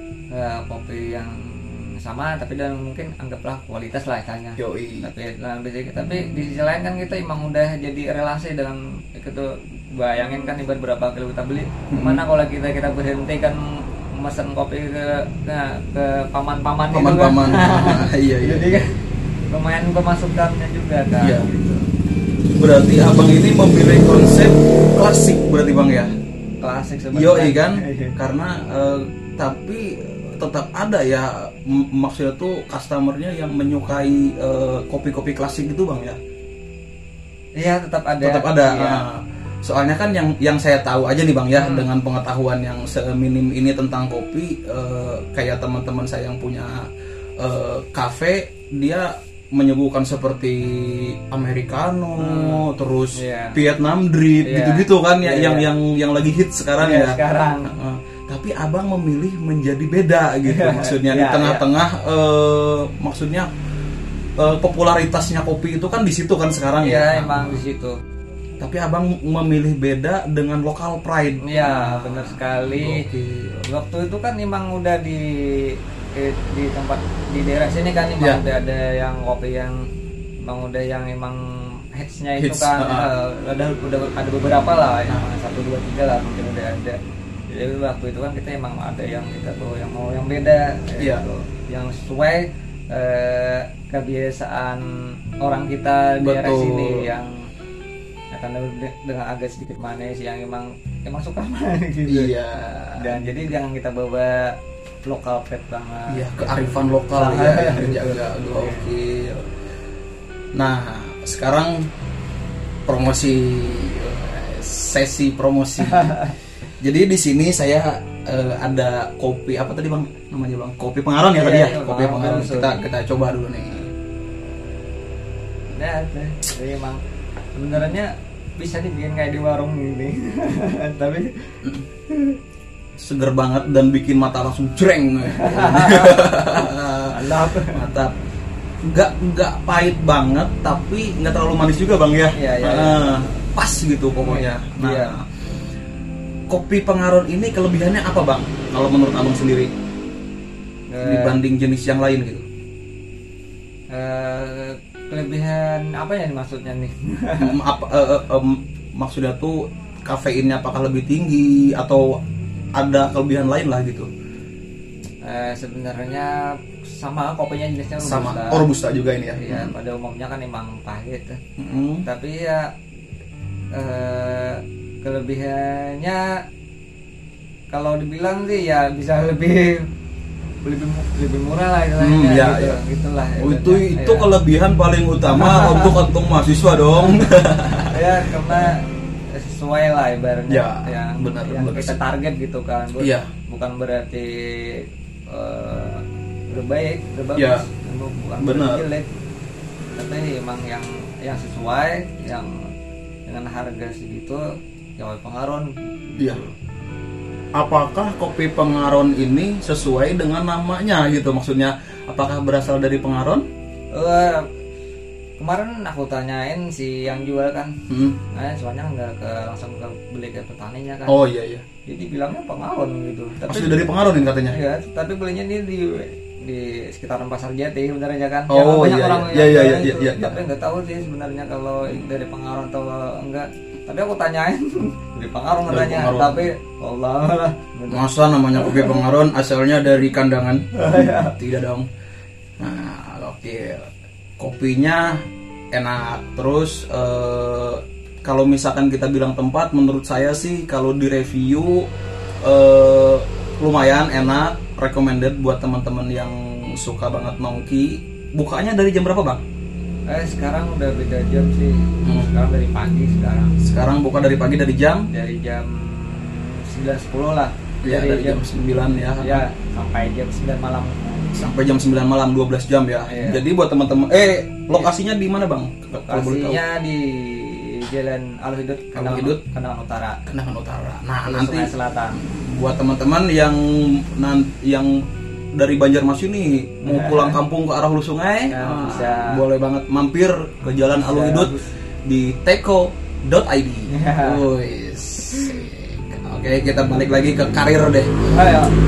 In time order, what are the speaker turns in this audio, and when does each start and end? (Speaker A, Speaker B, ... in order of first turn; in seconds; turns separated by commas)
Speaker A: 0.3-19.0, Speaker B: 4.6-5.1, Speaker B: 11.9-12.2, Speaker B: 16.9-18.9, Speaker A: 19.5-21.9, Speaker B: 21.2-21.5, Speaker B: 22.6-26.1, Speaker A: 26.6-28.1, Speaker B: 27.1-36.2, Speaker A: 37.6-39.0, Speaker B: 38.2-46.9, Speaker A: 41.5-41.9, Speaker B: 47.4-63.5, Speaker A: 52.2-53.6, Speaker A: 54.4-55.7, Speaker A: 56.8-57.7, Speaker A: 60.5-61.6, Speaker B: 64.4-67.6, Speaker A: 66.8-68.0, Speaker B: 68.6-73.6, Speaker A: 71.4-73.1, Speaker A: 73.6-79.9, Speaker A: 80.4-81.4, Speaker A: 81.9-87.0, Speaker B: 82.4-83.1, Speaker A: 87.5-94.9, Speaker B: 91.0-91.2, Speaker A: 95.4-97.5, Speaker B: 96.2-97.1, Speaker A: 98.3-102.3, Speaker B: 102.1-103.5, Speaker A: 103.0-104.5, Speaker A: 105.1-108.9, Speaker B: 106.1-109.5, Speaker B: 110.5-111.9, Speaker B: 112.9-116.2, Speaker A: 115.8-116.3, Speaker B: 116.8-123.9, Speaker A: 121.3-122.8, Speaker A: 125.7-127.0, Speaker A: 127.6-131.5, Speaker A: 132.1-132.4, Speaker B: 133.0-138.1, Speaker A: 135.3-137.8, Speaker B: 138.8-145.3, Speaker A: 142.3-143.4, Speaker A: 144.2-145.2, Speaker B: 146.5-149.7, Speaker A: 150.9-151.4, Speaker B: 151.0-152.4, Speaker A: 153.9-157.6, Speaker B: 157.4-162.2, Speaker B: 162.8-164.1, Speaker A: 165.2-168.7, Speaker B: 168.0-169.7, Speaker A: 169.4-171.4, Speaker B: 171.6-172.1, Speaker A: 172.1-172.7, Speaker A: 173.7-176.4, Speaker A: 177.7-179.9, Speaker A: 180.6-184.3, Speaker B: 182.0-182.8, Speaker B: 183.4-188.8, Speaker A: 185.3-185.9, Speaker A: 187.8-199.1, Speaker B: 190.5-192.0, Speaker B: 193.0-193.3, Speaker B: 197.4-197.7, Speaker B: 198.4-198.9, Speaker A: 199.9-202.7, Speaker A: 203.3-206.6, Speaker B: 207.6-213.4, Speaker A: 213.9-214.5, Speaker A: 215.4-217.8, Speaker B: 217.9-218.2, Speaker A: 218.3-221.2, Speaker B: 221.1-221.7, Speaker A: 221.9-223.9, Speaker B: 223.5-224.6, Speaker A: 224.5-239.0, Speaker B: 228.5-230.4, Speaker B: 235.7-236.5, Speaker B: 237.9-241.9, Speaker A: 240.7-241.4, Speaker B: 242.6-245.2, Speaker B: 245.7-251.9, Speaker B: 252.4-259.4, Speaker A: 260.1-263.6, Speaker B: 262.0-262.3, Speaker B: 263.6-265.1, Speaker A: 265.1-268.4, Speaker B: 267.8-269.4, Speaker A: 269.2-271.4, Speaker B: 271.3-276.6, Speaker A: 273.1-273.4, Speaker A: 276.1-280.2, Speaker B: 278.9-279.4, Speaker B: 280.3-291.5, Speaker A: 281.2-282.2, Speaker A: 286.8-287.4, Speaker A: 288.5-289.4, Speaker A: 291.0-291.7, Speaker B: 292.1-298.1, Speaker A: 293.9-294.5, Speaker A: 295.3-295.6, Speaker A: 298.3-298.7